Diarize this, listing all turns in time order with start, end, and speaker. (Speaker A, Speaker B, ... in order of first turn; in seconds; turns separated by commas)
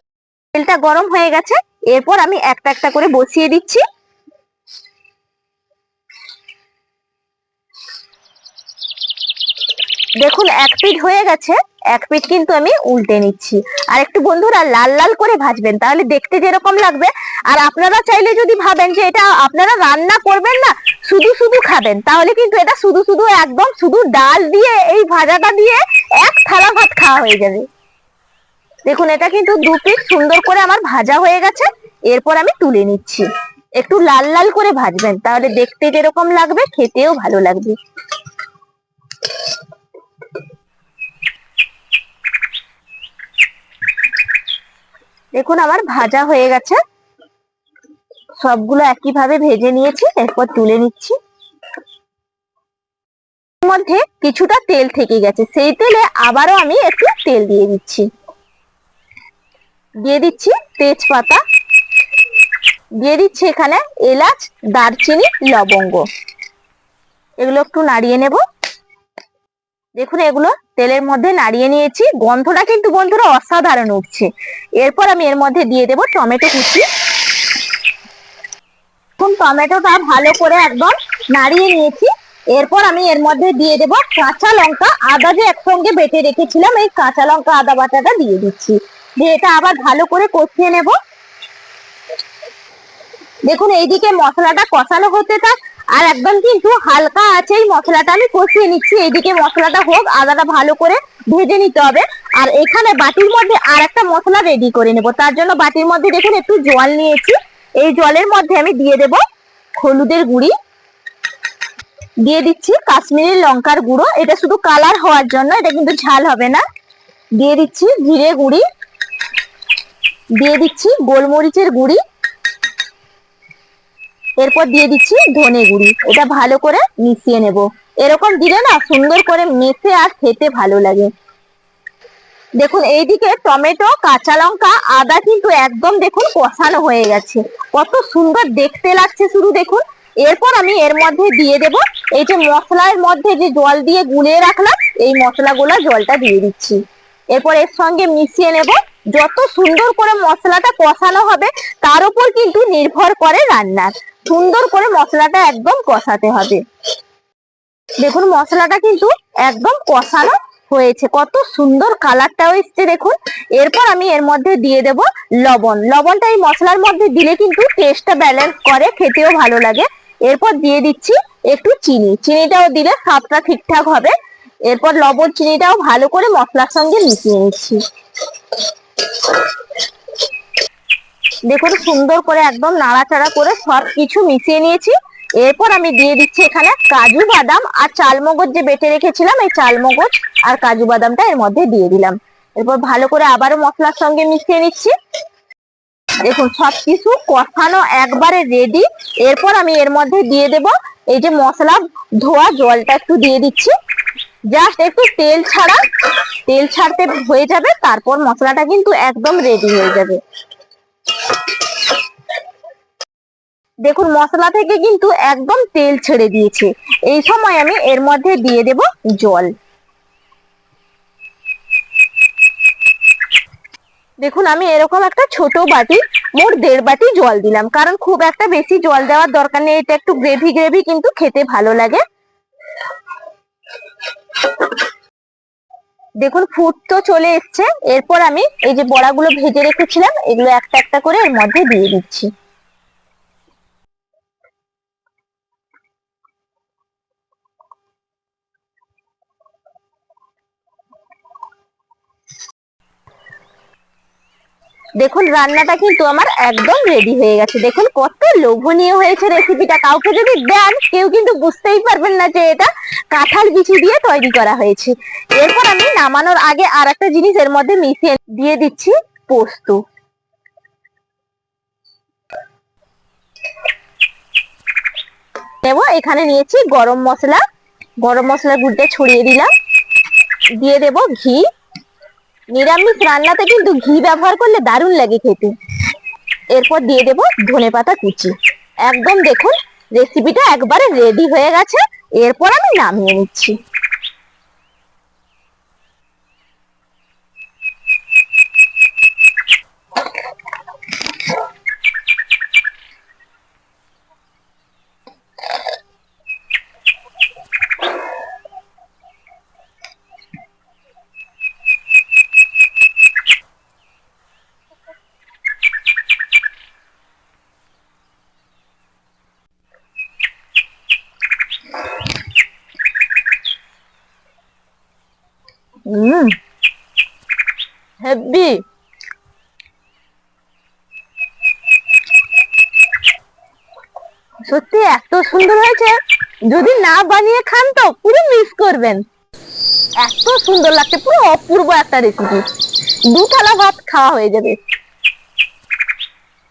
Speaker A: 0.5-3.9, Speaker A: 10.2-27.7, Speaker A: 28.9-37.8, Speaker A: 45.3-46.8, Speaker A: 48.4-51.2, Speaker A: 53.6-58.1, Speaker A: 60.0-61.4, Speaker A: 63.0-66.1, Speaker A: 67.4-68.4, Speaker A: 70.0-76.9, Speaker A: 79.2-91.0, Speaker A: 93.5-109.2, Speaker A: 109.8-110.5, Speaker A: 112.2-116.6, Speaker A: 117.4-118.6, Speaker A: 120.4-122.0, Speaker A: 124.4-131.1, Speaker A: 132.6-146.8, Speaker A: 147.3-156.6, Speaker A: 158.0-174.1, Speaker A: 174.7-177.8, Speaker A: 179.1-179.4, Speaker A: 181.5-194.9, Speaker A: 196.2-203.8, Speaker A: 204.5-205.8, Speaker A: 206.5-210.2, Speaker A: 213.8-219.5, Speaker A: 224.2-232.0, Speaker A: 236.2-242.3, Speaker A: 255.0-269.8, Speaker A: 275.6-277.4, Speaker A: 278.0-279.5, Speaker A: 280.6-281.5, Speaker A: 282.5-285.6, Speaker A: 286.5-288.4, Speaker A: 288.9-293.6, Speaker A: 325.9-326.3, Speaker A: 328.0-328.6, Speaker A: 334.5-336.0, Speaker A: 336.5-339.0, Speaker A: 340.0-342.4, Speaker A: 343.1-344.6